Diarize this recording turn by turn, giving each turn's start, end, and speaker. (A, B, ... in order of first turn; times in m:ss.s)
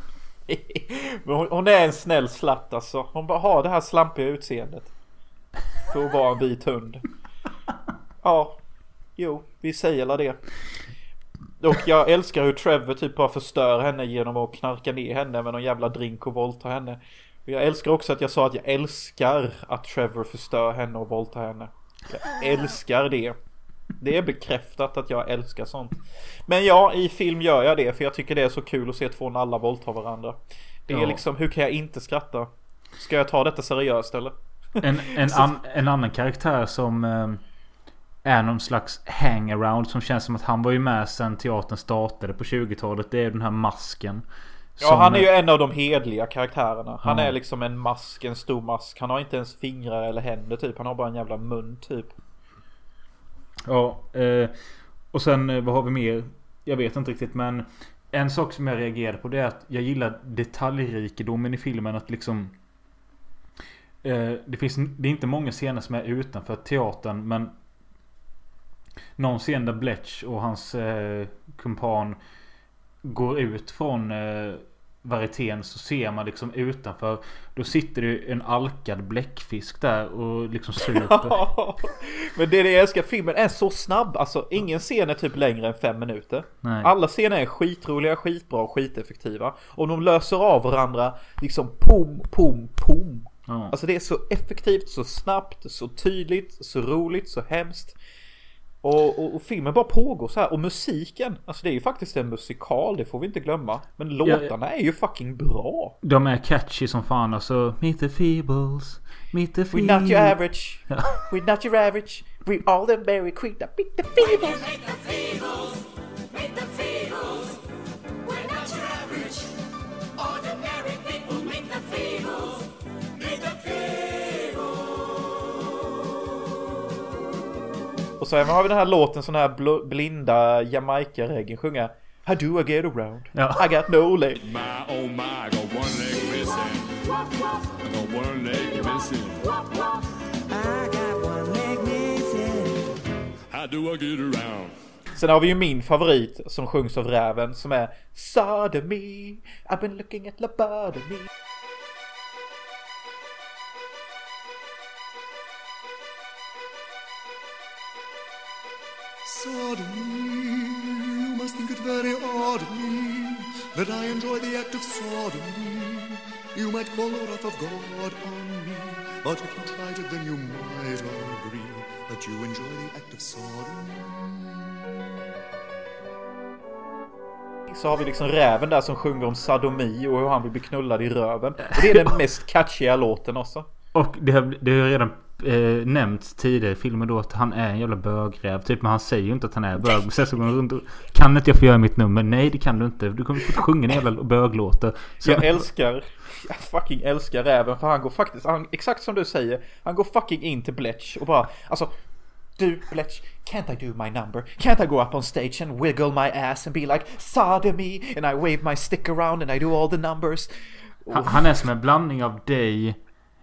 0:00.5-0:04.9 A
0:05.8-0:07.0 A
0:08.2-0:08.6 A
0:09.2-0:10.4 A
0:11.6-0:23.4 A
0:24.0-0:35.5 A
0:30.9-0:31.2 B
0:34.8-0:37.4 B
0:38.2-0:44.3 B
0:44.8-0:45.3 B
0:44.8-0:52.2 A
0:47.0-0:47.3 B
0:53.7-0:54.5 B
0:55.1-1:02.5 B
1:04.0-1:07.5 B
1:09.2-1:12.2 B
1:13.0-1:21.4 B
1:20.8-1:38.0 A
1:26.6-1:26.9 B
1:33.5-1:33.7 B
1:38.8-1:46.0 A
1:44.2-1:44.5 B
1:46.0-1:50.4 B
1:49.7-1:54.8 A
2:08.2-2:14.4 A
2:13.3-2:13.6 B
2:14.5-2:16.8 C
2:17.8-2:19.4 C
2:20.5-2:22.9 D
2:23.5-2:24.7 C
2:25.2-2:31.3 A
2:39.2-2:54.7 E
2:57.7-3:03.7 A
3:01.8-3:02.1 B
3:03.9-3:15.6 B
3:15.2-3:21.9 A
3:22.6-3:31.5 A
3:31.1-3:33.0 B